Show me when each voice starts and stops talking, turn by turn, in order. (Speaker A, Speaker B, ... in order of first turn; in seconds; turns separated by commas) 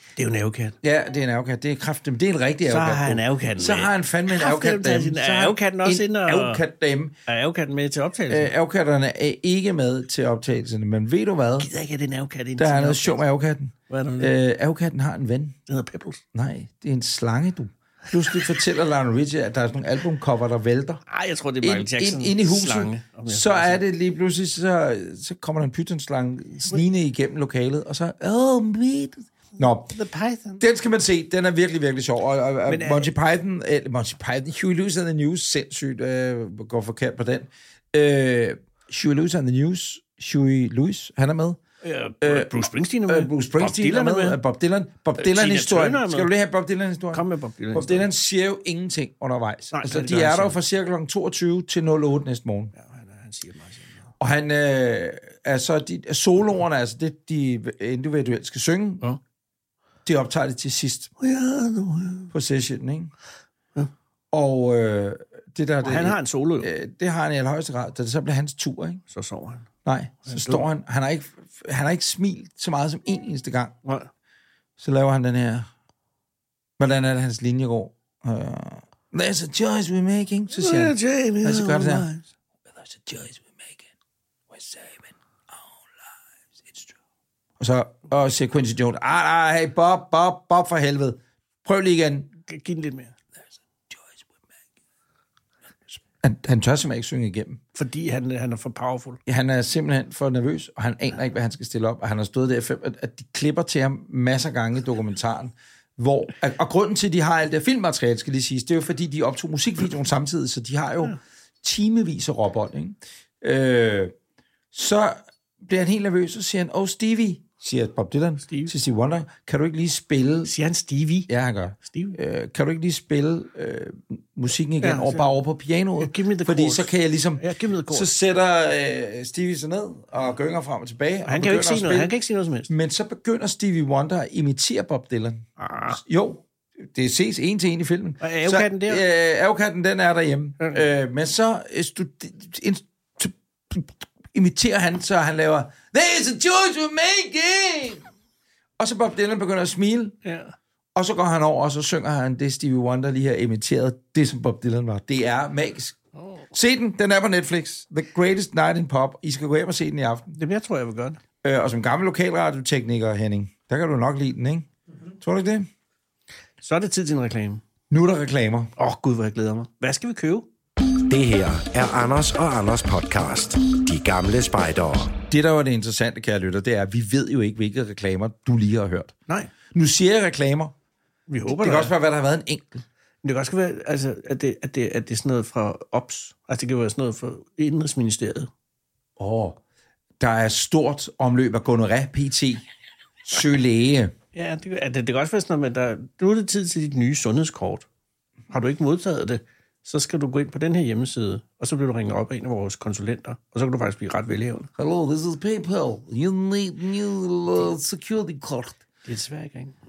Speaker A: 0.2-0.8, Speaker B: 0.8-7.2, Speaker A: 2.7-6.6, Speaker A: 7.3-8.5, Speaker B: 8.3-11.7, Speaker A: 11.6-13.2, Speaker B: 12.6-15.6, Speaker A: 13.9-14.3, Speaker A: 15.7-16.2, Speaker B: 16.3-21.0, Speaker A: 21.1-23.8, Speaker B: 21.6-29.9, Speaker A: 29.6-30.6, Speaker B: 30.6-41.6, Speaker A: 32.7-33.1, Speaker A: 41.8-44.4, Speaker B: 42.2-42.5, Speaker B: 43.1-52.7, Speaker A: 45.2-46.3, Speaker A: 47.1-48.1, Speaker A: 49.7-50.6, Speaker A: 52.8-54.1, Speaker B: 54.2-59.1, Speaker B: 60.0-61.1, Speaker A: 61.2-62.3, Speaker B: 62.3-63.1, Speaker B: 64.3-69.0, Speaker A: 65.8-66.7, Speaker A: 69.1-69.7, Speaker B: 69.8-73.8, Speaker A: 70.2-70.7, Speaker A: 73.8-74.1, Speaker B: 74.8-75.7, Speaker B: 76.8-82.1, Speaker A: 80.5-82.2, Speaker B: 82.7-83.9, Speaker B: 84.5-85.6, Speaker B: 86.6-87.0, Speaker B: 87.6-92.3, Speaker A: 92.4-93.2, Speaker B: 93.9-94.2, Speaker B: 96.2-97.6, Speaker A: 97.7-99.2, Speaker B: 99.3-114.1, Speaker B: 114.7-120.5, Speaker A: 118.5-118.7, Speaker A: 120.5-121.3, Speaker B: 121.3-132.1, Speaker A: 121.9-122.2, Speaker A: 124.8-125.3, Speaker A: 126.0-128.1, Speaker A: 131.3-132.7, Speaker B: 132.7-148.1, Speaker A: 135.6-136.0, Speaker A: 138.2-139.0, Speaker B: 148.8-150.2, Speaker A: 150.2-150.5, Speaker B: 150.9-156.0, Speaker A: 156.2-156.5, Speaker B: 156.5-160.3, Speaker A: 160.3-161.2, Speaker B: 161.4-164.7, Speaker B: 165.2-165.7, Speaker A: 166.6-167.6, Speaker B: 167.9-168.7, Speaker A: 168.8-170.5, Speaker C: 171.1-175.1, Speaker B: 175.3-179.2, Speaker B: 179.7-180.7, Speaker A: 181.3-181.9, Speaker B: 181.5-182.8, Speaker A: 183.2-188.5, Speaker B: 189.2-189.6, Speaker B: 190.2-192.6, Speaker B: 193.2-194.1, Speaker A: 194.3-197.9, Speaker A: 198.5-204.7, Speaker B: 204.8-208.8, Speaker A: 209.1-209.7